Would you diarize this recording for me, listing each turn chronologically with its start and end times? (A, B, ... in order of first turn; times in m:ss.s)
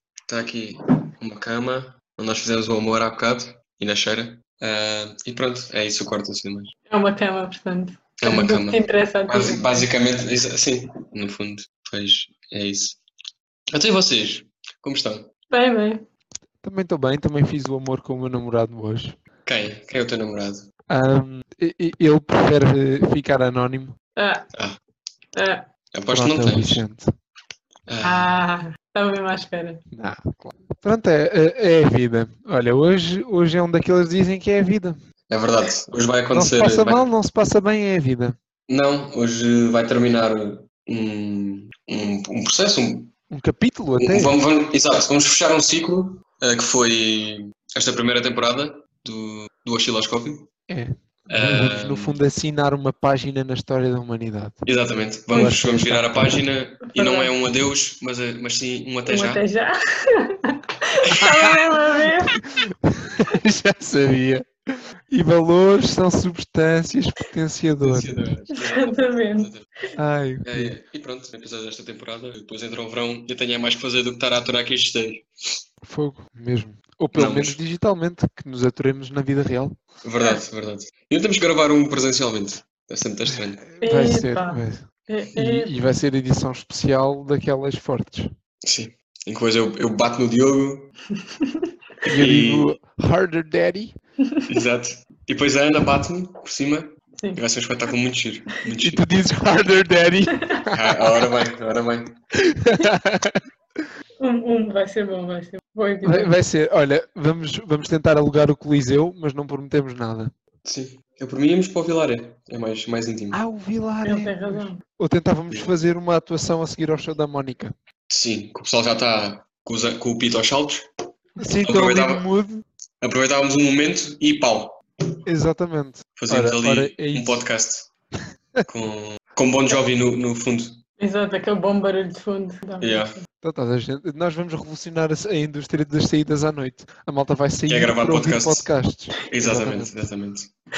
0:00.3-0:06.7 A
0:06.9-0:09.9 B
0:08.2-0:13.0 A
0:13.7-0:15.3 A
0:15.5-0:16.0 B
0:16.6-0:19.2 C
0:19.4-0:20.6 A
0:20.9-0:24.0 C
0:24.2-0:24.5 B
0:24.5-0:24.8 A
0:25.3-0:25.7 B
0:25.9-0:26.8 A
0:26.1-0:27.1 C
0:27.9-0:28.4 A
0:28.0-0:29.8 B
0:29.9-0:35.0 C
0:35.3-0:37.0 A
0:36.3-0:38.4 C
0:38.7-0:43.1 A
0:43.3-0:44.4 C
0:44.0-0:50.5 A
0:50.7-0:54.6 C
0:51.3-0:52.2 A
0:54.6-0:59.4 A
0:55.3-0:56.4 C
0:55.3-0:55.6 B
0:56.9-0:57.3 B
0:59.1-1:02.4 B
1:01.2-1:04.5 C
1:05.1-1:08.2 C
1:07.8-1:09.6 A
1:08.5-1:09.5 B
1:10.0-1:10.7 C
1:10.4-1:15.3 A
1:15.8-1:19.8 C
1:17.1-1:17.6 A
1:20.0-1:23.6 A
1:23.3-1:28.3 C
1:23.8-1:25.7 B
1:28.6-1:30.9 A
1:31.2-1:31.6 B
1:32.0-1:32.7 A
1:32.1-1:33.9 C
1:34.5-1:39.0 A
1:38.8-1:41.2 C
1:40.3-1:40.6 B
1:40.7-1:42.2 A
1:42.3-1:43.8 C
1:44.2-1:46.3 B
1:46.0-1:50.3 C
1:50.6-1:53.4 A
1:53.3-1:57.7 C
1:54.0-1:54.8 B
1:58.1-2:00.9 A
2:01.4-2:02.6 C
2:01.6-2:02.2 A
2:03.0-2:04.8 A
2:05.2-2:07.4 C
2:06.2-2:07.9 A
2:08.7-2:10.8 A
2:11.0-2:13.2 B
2:12.8-2:13.1 A
2:13.4-2:19.9 C
2:17.7-2:18.7 A
2:19.3-2:20.5 A